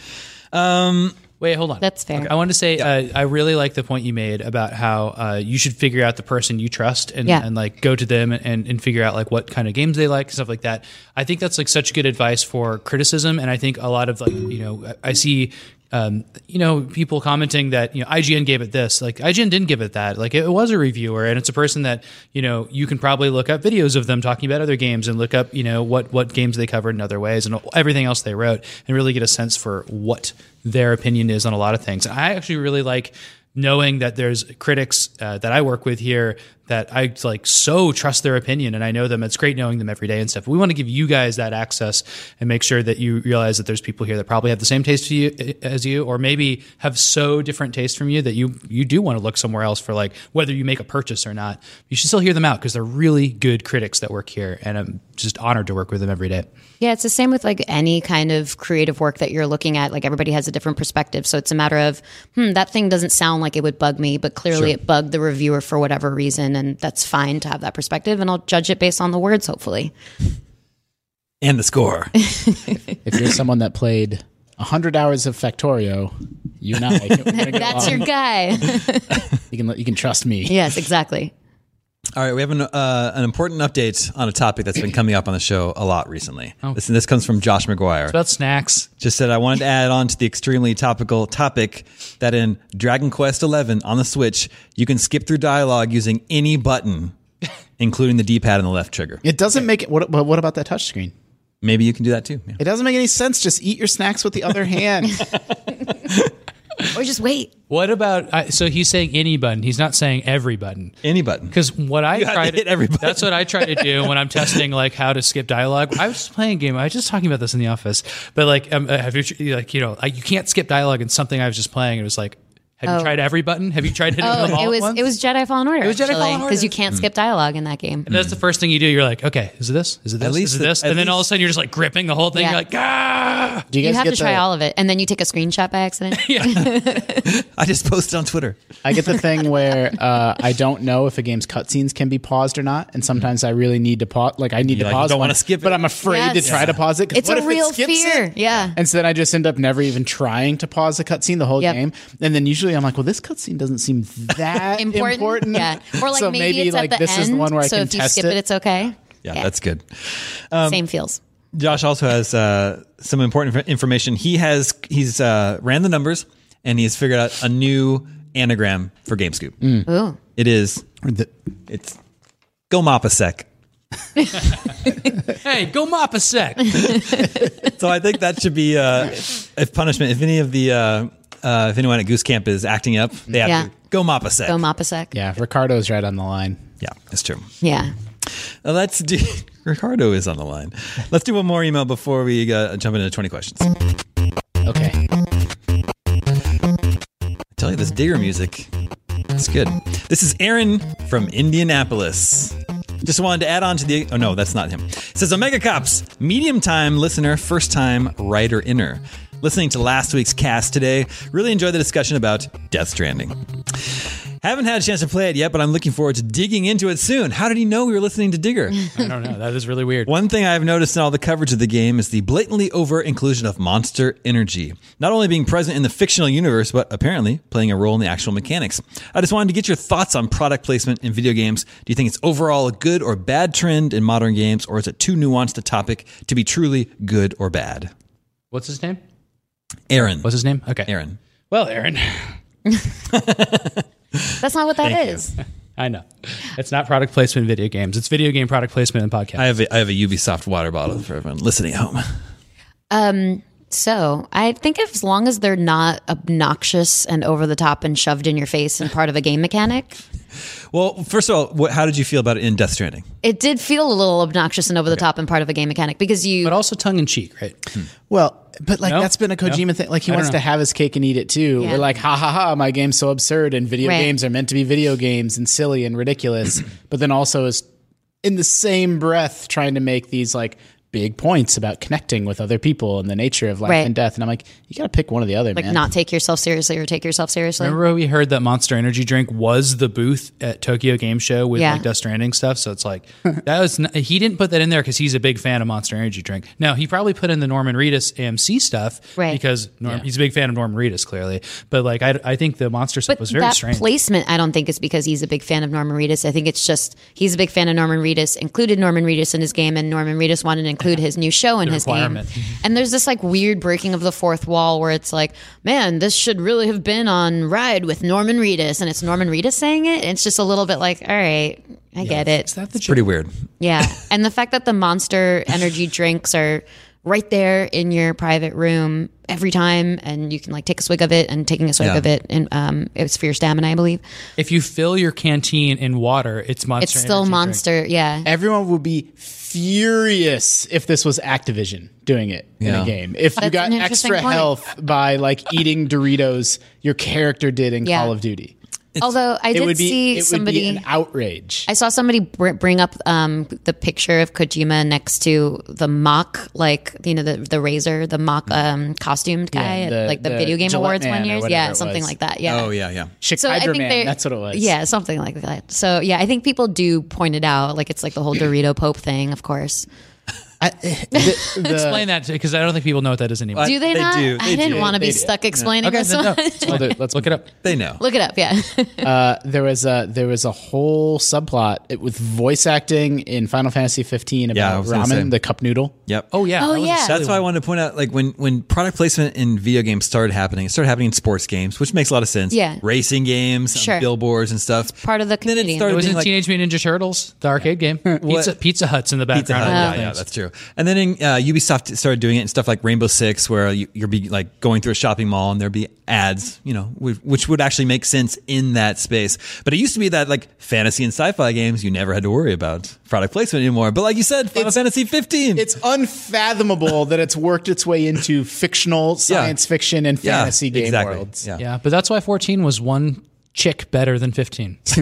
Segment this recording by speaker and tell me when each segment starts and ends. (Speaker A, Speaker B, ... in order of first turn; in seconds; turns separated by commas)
Speaker A: 0.5-1.2, Speaker B: 1.4-56.5, Speaker C: 1.8-2.3, Speaker C: 56.8-69.9, Speaker A: 71.4-72.3, Speaker C: 72.2-72.9, Speaker D: 73.0-78.0, Speaker A: 77.1-77.9, Speaker C: 77.3-79.2, Speaker D: 79.5-80.6, Speaker C: 80.5-81.3, Speaker A: 82.2-88.2, Speaker B: 88.1-88.9, Speaker A: 89.0-97.1, Speaker A: 97.8-99.2, Speaker D: 99.2-101.1, Speaker A: 101.6-102.6, Speaker D: 102.6-105.3, Speaker A: 105.9-106.3, Speaker C: 106.9-107.5, Speaker B: 107.7-110.9, Speaker A: 111.0-111.5, Speaker B: 111.5-125.0, Speaker A: 112.1-114.1, Speaker C: 122.8-123.1, Speaker C: 124.2-128.1, Speaker B: 125.8-126.8, Speaker B: 128.1-133.7, Speaker A: 128.1-128.4, Speaker A: 130.2-131.2, Speaker C: 132.3-132.6, Speaker D: 133.7-134.4, Speaker C: 133.8-137.3, Speaker B: 136.1-136.7, Speaker A: 136.5-138.6, Speaker D: 138.8-158.4, Speaker A: 144.7-145.9, Speaker C: 146.0-148.8, Speaker A: 146.4-146.8, Speaker C: 154.7-159.5, Speaker A: 159.2-160.8, Speaker C: 160.7-161.2, Speaker A: 161.5-169.8, Speaker C: 169.8-170.2, Speaker A: 170.3-170.8, Speaker D: 171.0-171.3, Speaker A: 171.7-172.0, Speaker A: 172.7-173.5, Speaker B: 175.3-177.0, Speaker C: 176.9-177.2, Speaker A: 176.9-184.6, Speaker C: 183.4-183.7, Speaker C: 184.4-185.1, Speaker D: 185.1-186.6, Speaker A: 186.8-187.5, Speaker C: 187.6-187.9, Speaker A: 188.6-193.7, Speaker D: 194.6-195.0, Speaker A: 197.6-198.7, Speaker A: 199.3-218.9, Speaker B: 218.9-220.1, Speaker A: 220.1-237.9, Speaker B: 238.5-239.0, Speaker A: 239.9-240.3, Speaker B: 240.0-240.9, Speaker A: 240.9-241.2, Speaker B: 241.5-242.4, Speaker A: 243.1-245.3, Speaker C: 244.4-245.3, Speaker B: 245.8-249.5, Speaker A: 249.4-252.1, Speaker C: 252.9-260.0, Speaker A: 260.7-263.0, Speaker C: 263.2-266.5, Speaker B: 266.4-267.6, Speaker D: 268.1-277.6, Speaker B: 268.8-270.4, Speaker C: 271.6-271.8, Speaker C: 273.8-274.1, Speaker D: 278.2-285.8, Speaker C: 285.6-287.8, Speaker B: 287.6-303.9, Speaker C: 291.5-291.8, Speaker C: 303.1-322.5, Speaker B: 311.6-312.5, Speaker B: 322.0-323.1, Speaker A: 322.8-323.3, Speaker C: 323.6-334.0, Speaker A: 331.8-332.1, Speaker B: 334.4-337.6, Speaker C: 336.8-338.3, Speaker D: 338.2-348.5, Speaker A: 342.6-342.9, Speaker C: 343.4-344.5, Speaker C: 347.8-348.1, Speaker C: 349.0-350.8, Speaker D: 349.5-351.7, Speaker C: 351.7-362.7, Speaker D: 359.5-362.1, Speaker A: 362.4-363.1, Speaker D: 363.2-364.7, Speaker C: 363.4-369.9, Speaker D: 370.6-372.1, Speaker C: 371.1-371.6, Speaker B: 371.6-373.8, Speaker A: 373.5-375.7, Speaker C: 373.6-376.9, Speaker D: 374.6-375.3, Speaker B: 375.8-377.4, Speaker D: 376.6-377.4, Speaker A: 377.6-378.0, Speaker C: 378.0-379.1, Speaker D: 379.0-385.9, Speaker A: 384.5-385.3, Speaker A: 386.1-386.3, Speaker B: 386.3-387.5, Speaker C: 386.6-387.1, Speaker A: 387.0-396.3, Speaker C: 392.5-392.8, Speaker C: 393.7-394.1, Speaker C: 395.0-396.1, Speaker B: 395.8-400.2, Speaker A: 398.1-398.5, Speaker A: 399.3-415.7, Speaker C: 399.6-400.0, Speaker D: 414.5-414.8, Speaker D: 415.5-421.4, Speaker A: 419.3-419.5, Speaker A: 420.2-421.6, Speaker B: 421.6-424.9